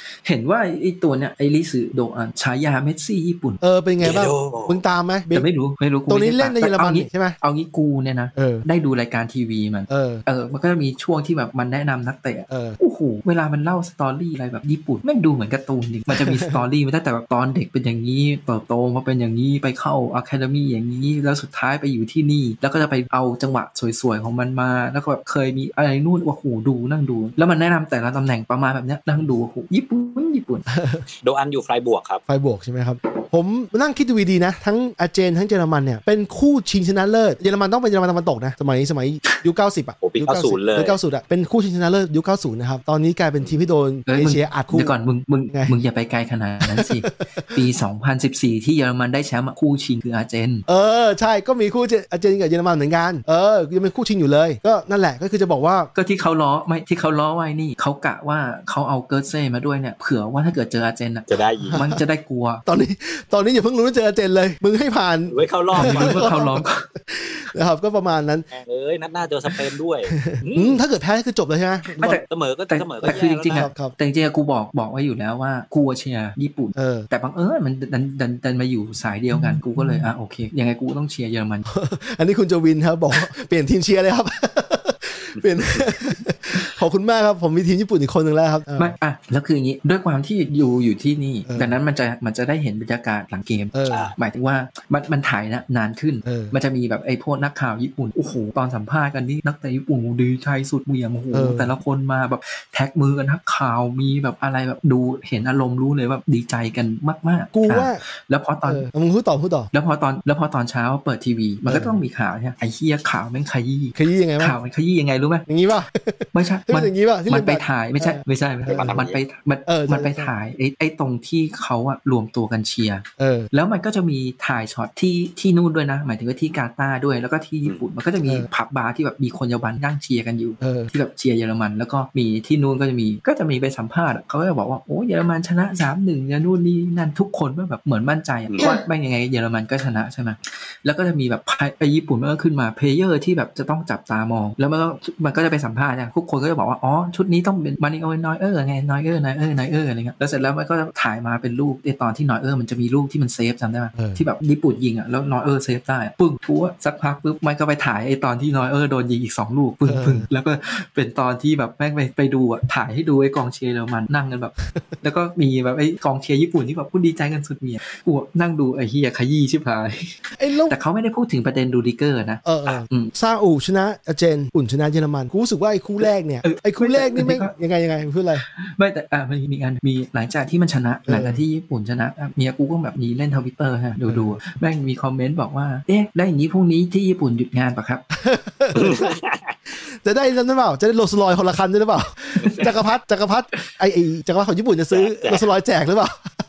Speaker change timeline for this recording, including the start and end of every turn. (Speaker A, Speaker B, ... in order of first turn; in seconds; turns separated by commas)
Speaker A: 0.2-3.6, Speaker B: 3.6-5.5, Speaker C: 4.0-4.8, Speaker A: 5.3-30.7, Speaker B: 6.1-7.4, Speaker B: 8.3-8.7, Speaker B: 9.9-10.2, Speaker B: 12.5-12.8, Speaker B: 16.1-16.6, Speaker B: 30.7-31.1, Speaker C: 31.2-32.2, Speaker B: 32.3-45.0, Speaker C: 40.0-41.0, Speaker A: 44.1-50.6, Speaker B: 46.7-47.6, Speaker B: 50.7-55.9, Speaker A: 56.0-62.6, Speaker C: 61.3-61.8, Speaker B: 61.6-62.0, Speaker B: 62.6-68.5, Speaker C: 65.3-66.4, Speaker A: 65.7-66.9, Speaker C: 68.5-70.8, Speaker B: 70.2-72.2, Speaker A: 72.0-81.7, Speaker C: 72.2-73.7, Speaker B: 73.0-73.9, Speaker B: 76.8-77.1, Speaker B: 79.3-80.0, Speaker B: 81.7-89.0, Speaker A: 88.8-108.9, Speaker B: 91.5-91.8, Speaker B: 93.7-94.1, Speaker C: 93.9-94.2, Speaker B: 96.2-96.5, Speaker B: 101.3-101.7, Speaker B: 107.5-108.0, Speaker B: 108.7-109.7, Speaker A: 109.7-115.5, Speaker B: 111.7-112.0, Speaker B: 114.0-114.6, Speaker B: 115.5-119.0, Speaker A: 116.3-173.1, Speaker C: 118.7-119.2, Speaker B: 119.7-120.3, Speaker B: 123.2-123.5, Speaker B: 130.6-130.9, Speaker B: 153.9-154.2, Speaker B: 159.9-160.3, Speaker B: 164.7-165.0, Speaker B: 170.3-170.8, Speaker B: 172.4-178.4, Speaker A: 176.4-177.5, Speaker A: 178.4-188.0, Speaker B: 181.1-181.4, Speaker B: 184.1-184.4, Speaker B: 188.2-189.1, Speaker C: 188.8-189.5, Speaker B: 189.8-196.2, Speaker C: 192.4-192.7, Speaker C: 194.9-195.5